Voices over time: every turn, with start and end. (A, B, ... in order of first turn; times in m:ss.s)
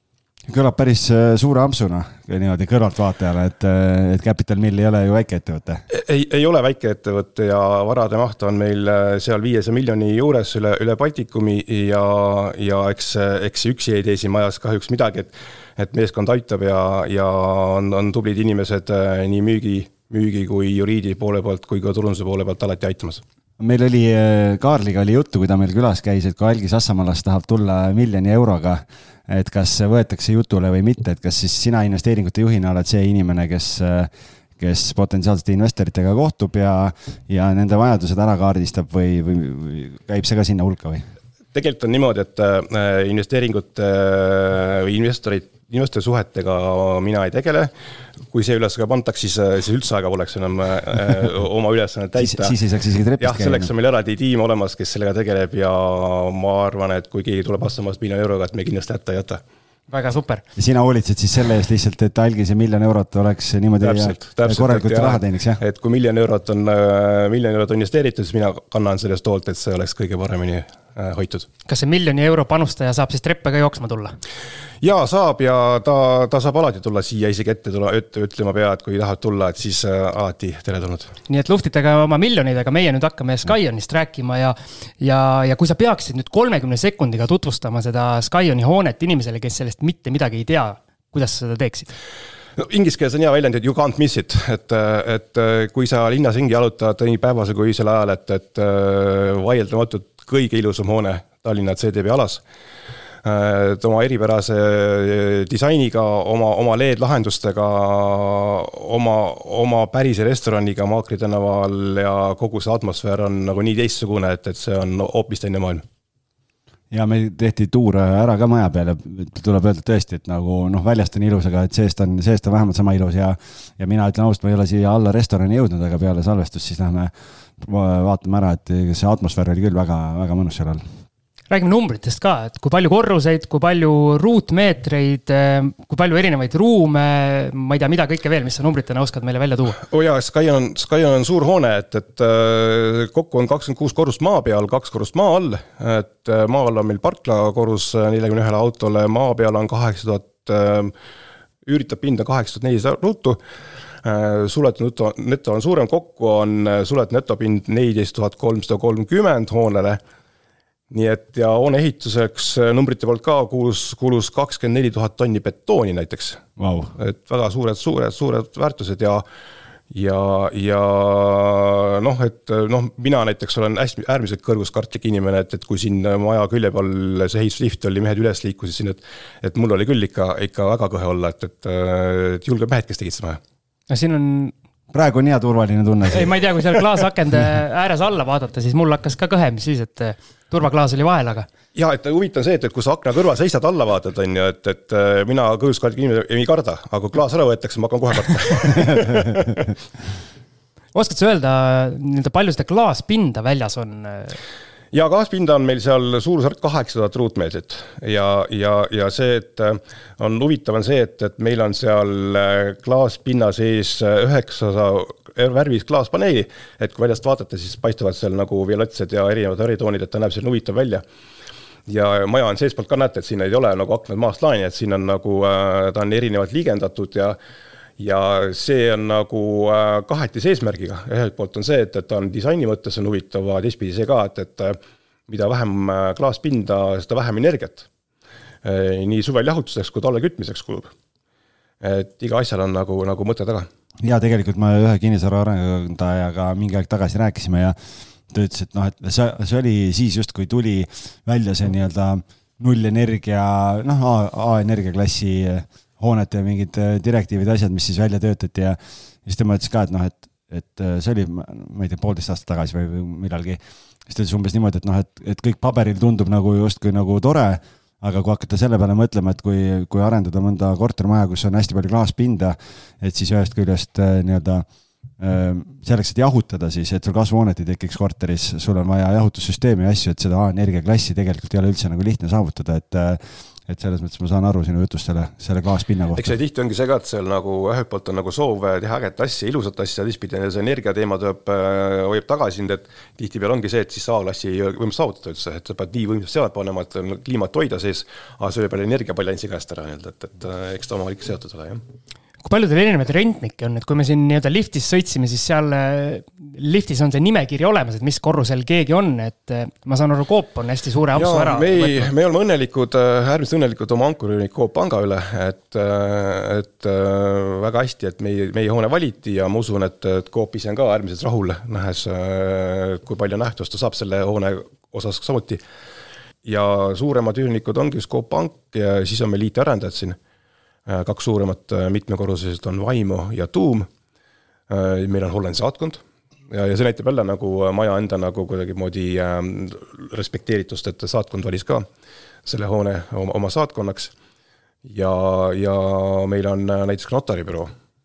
0:00.5-0:05.8 A
0:05.9-0:23.2 B
0:23.6-0:41.0 A
0:41.5-0:47.7 B
0:48.3-0:52.6 B
0:52.2-0:53.7 A
0:53.2-0:59.4 B
0:59.9-1:00.4 C
1:00.5-1:05.6 A
1:03.8-1:11.5 B
1:11.7-1:14.2 C
1:14.8-1:21.2 B
1:21.3-1:31.9 C
1:32.6-1:42.4 B
1:43.2-1:55.8 B
1:56.9-2:10.8 A
2:11.5-2:19.8 C
2:19.8-2:30.9 B
2:31.6-2:33.4 B
2:34.0-2:40.0 B
2:40.9-2:46.4 B
2:46.6-2:46.9 A
2:47.0-2:49.2 B
2:49.9-3:03.4 B
3:03.9-3:04.5 C
3:04.9-3:06.4 A
3:06.1-3:11.5 C
3:11.8-3:19.5 B
3:20.9-3:24.4 C
3:24.9-3:41.0 B
3:41.9-3:47.4 B
3:48.0-3:57.9 B
3:58.6-4:00.9 B
4:01.8-4:03.7 B
4:04.0-4:07.8 A
4:08.3-4:34.6 A
4:35.2-4:46.3 A
4:46.2-5:01.8 B
5:02.4-5:12.1 C
5:11.1-5:25.6 B
5:26.4-5:30.2 B
5:30.9-5:33.9 B
5:34.7-5:41.9 B
5:42.4-5:44.1 B
5:44.8-5:47.7 B